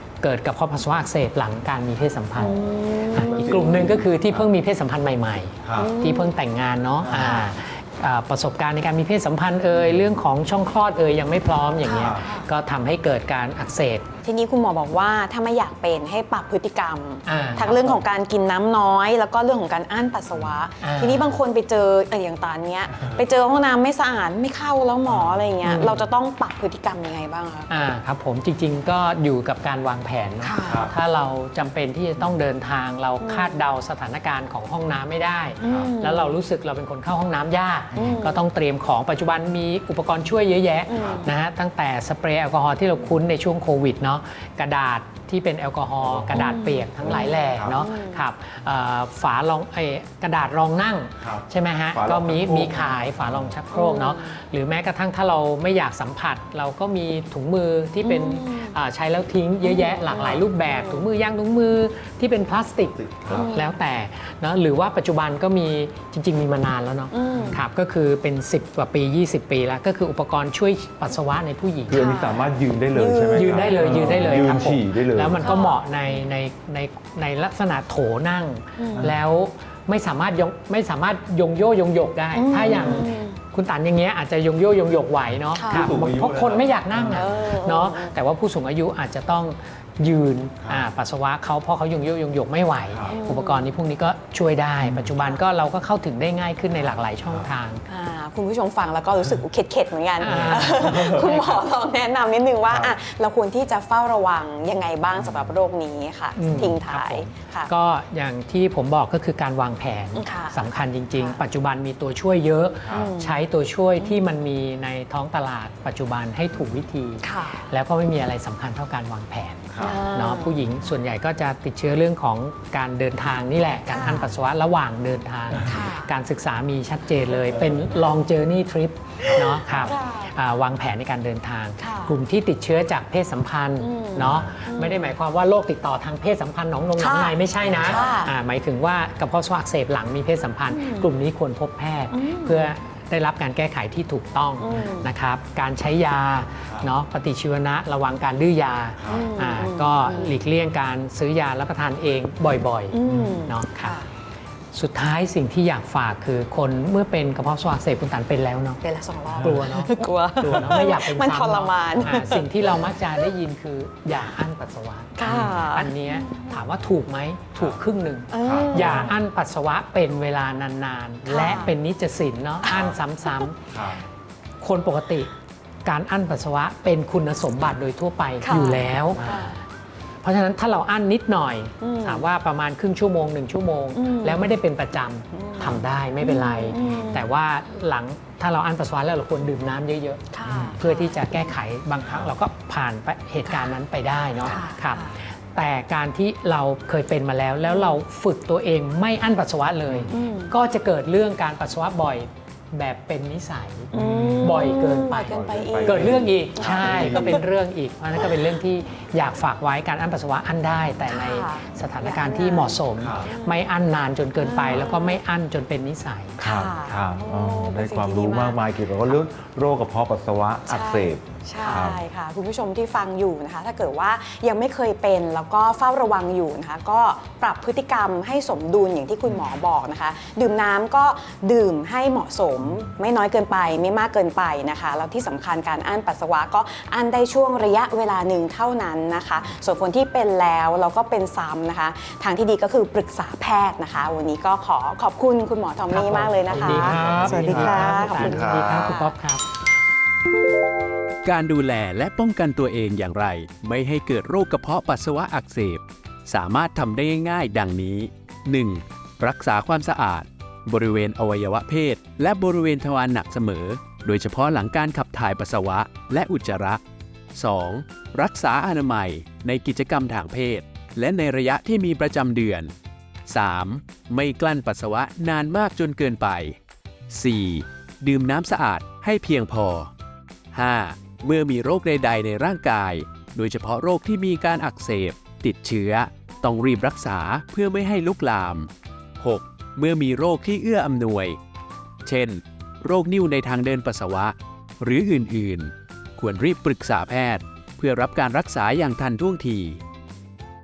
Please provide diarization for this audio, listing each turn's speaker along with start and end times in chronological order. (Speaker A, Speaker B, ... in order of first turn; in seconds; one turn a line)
Speaker A: 0.2-2.5
Speaker B: 2.4-3.6
Speaker A: 3.1-14.1
Speaker C: 3.3-4.5
Speaker C: 5.6-5.9
Speaker B: 5.7-6.3
Speaker C: 7.0-7.4
Speaker B: 7.1-7.5
Speaker B: 11.8-12.4
Speaker C: 11.9-12.3
Speaker B: 14.2-27.7
Speaker A: 17.2-18.0
Speaker A: 20.8-21.4
Speaker C: 25.1-25.5
Speaker A: 25.6-26.0
Speaker A: 27.7-72.1
Speaker B: 30.4-30.9
Speaker C: 30.6-30.9
Speaker B: 33.2-33.6
Speaker B: 35.6-36.4
Speaker C: 35.6-35.9
Speaker C: 37.9-38.2
Speaker B: 38.0-38.4
Speaker B: 40.9-41.3
Speaker C: 41.0-41.3
Speaker C: 46.0-47.8
Speaker B: 46.3-48.2
Speaker C: 51.2-53.5
Speaker B: 53.7-54.4
Speaker B: 58.0-58.7
Speaker B: 59.6-61.1
Speaker C: 62.9-63.6
Speaker B: 63.3-63.7
Speaker B: 67.1-67.6
Speaker C: 67.3-67.6
Speaker C: 71.9-75.5
Speaker B: 71.9-74.7
Speaker A: 73.3-97.8
Speaker B: 75.4-76.1
Speaker B: 78.8-79.1
Speaker B: 82.3-83.4
Speaker C: 82.6-83.0
Speaker B: 85.5-85.9
Speaker C: 85.7-87.3
Speaker B: 87.0-88.1
Speaker C: 90.6-90.9
Speaker C: 92.9-93.2
Speaker B: 93.1-93.7
Speaker C: 94.8-95.1
Speaker B: 97.9-107.7
Speaker A: 100.2-101.6
Speaker C: 100.3-101.2
Speaker C: 102.7-102.9
Speaker C: 105.2-105.5
Speaker A: 106.3-154.0
Speaker C: 106.5-106.8
Speaker B: 110.2-111.4
Speaker C: 112.8-113.1
Speaker B: 112.9-113.4
Speaker B: 117.2-117.7
Speaker C: 119.7-120.0
Speaker B: 119.8-120.6
Speaker B: 123.9-124.3
Speaker B: 125.6-126.1
Speaker C: 129.2-129.9
Speaker B: 129.8-130.3
Speaker B: 131.8-132.2
Speaker B: 133.8-135.1
Speaker C: 134.2-134.5
Speaker B: 137.0-138.3
Speaker C: 137.6-138.3
Speaker B: 140.7-141.1
Speaker B: 142.1-142.7
Speaker B: 144.6-145.1
Speaker C: 149.0-149.3
Speaker B: 149.1-150.3
Speaker B: 152.9-154.1
Speaker C: 153.1-153.4
Speaker A: 154.7-158.8
Speaker B: 158.8-162.7
Speaker C: 159.3-159.6
Speaker A: 159.4-173.7
Speaker B: 165.2-166.6
Speaker C: 165.2-165.6
Speaker B: 168.3-169.1
Speaker C: 168.4-169.2
Speaker B: 171.3-171.7
Speaker C: 173.7-174.0
Speaker A: 174.6-175.3
Speaker A: 175.8-179.6
Speaker B: 178.4-179.6
Speaker A: 180.2-216.4
Speaker B: 181.8-182.2
Speaker B: 183.9-184.5
Speaker B: 185.3-187.3
Speaker B: 190.3-191.3
Speaker C: 190.5-190.8
Speaker C: 192.0-192.3
Speaker B: 193.4-193.7
Speaker B: 194.4-195.1
Speaker B: 200.1-200.5
Speaker C: 203.9-207.4
Speaker B: 203.9-207.4
Speaker B: 211.1-213.7
Speaker C: 213.0-213.3
Speaker B: 214.4-215.2
Speaker B: 216.4-218.6
Speaker C: 216.4-222.0
Speaker B: 220.7-249.1
Speaker A: 245.9-249.4
Speaker C: 246.5-248.9
Speaker D: 251.2-266.8
Speaker D: 267.3-272.7
Speaker D: 273.3-276.6
Speaker D: 277.1-279.9
Speaker D: 280.5-291.4
Speaker D: 292.0-299.8